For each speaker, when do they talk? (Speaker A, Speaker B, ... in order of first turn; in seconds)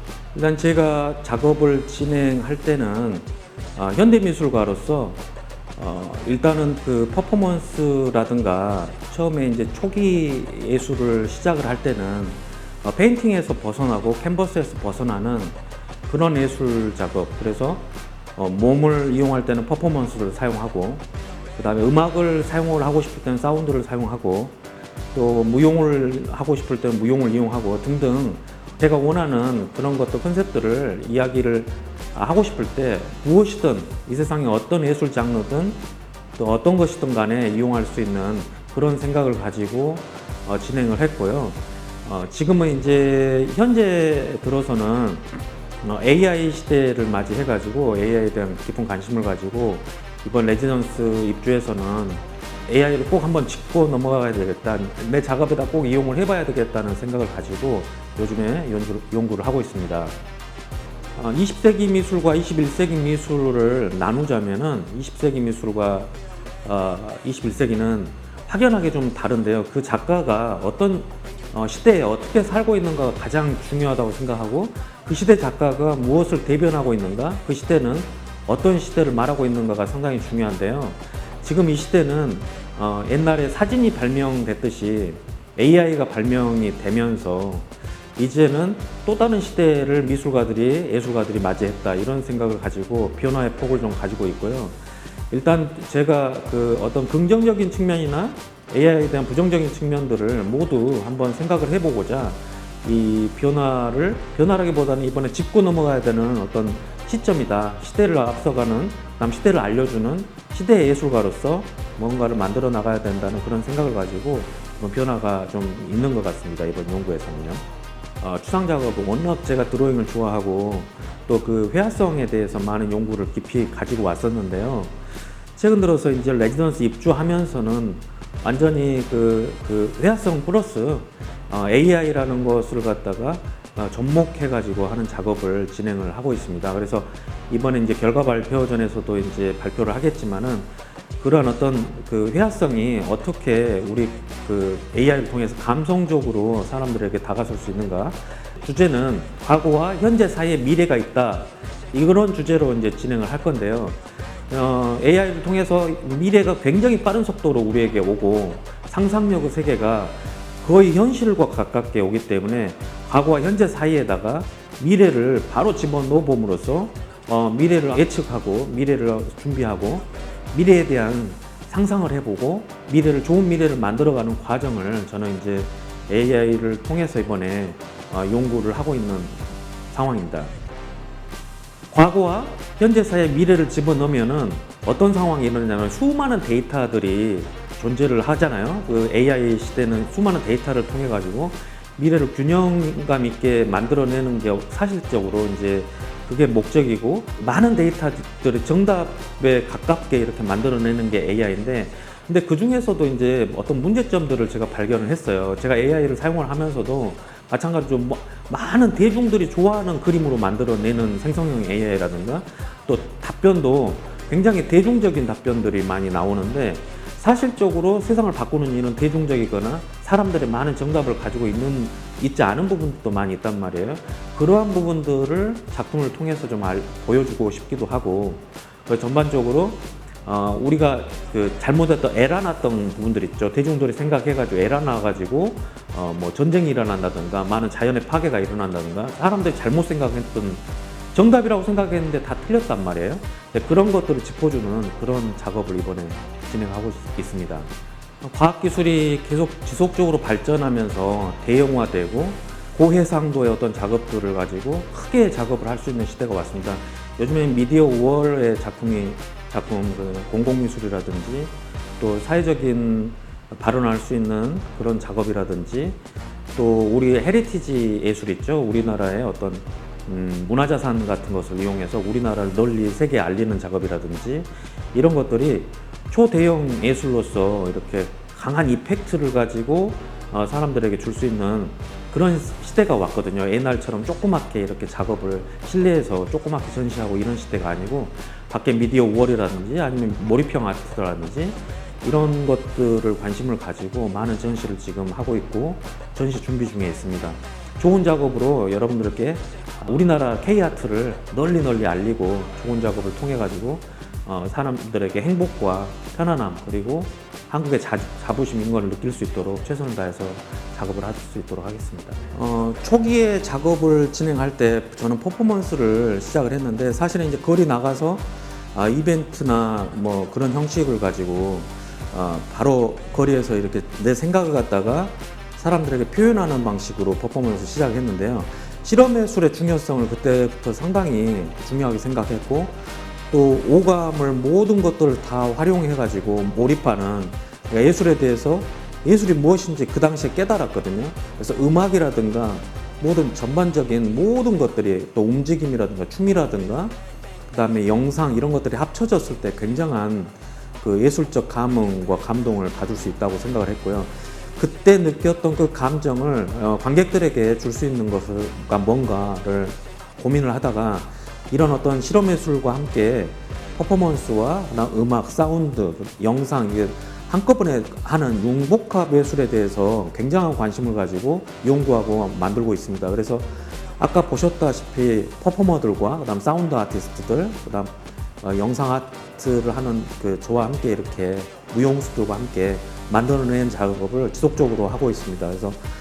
Speaker A: 0.3-5.2, 5.8-24.6, 25.1-35.8, 36.4-60.1, 61.1-66.1, 66.6-94.8, 95.3-117.6, 118.2-125.0, 125.5-154.0, 154.5-180.5, 181.9-247.7, 248.2-266.0, 266.5-346.9, 347.5-385.8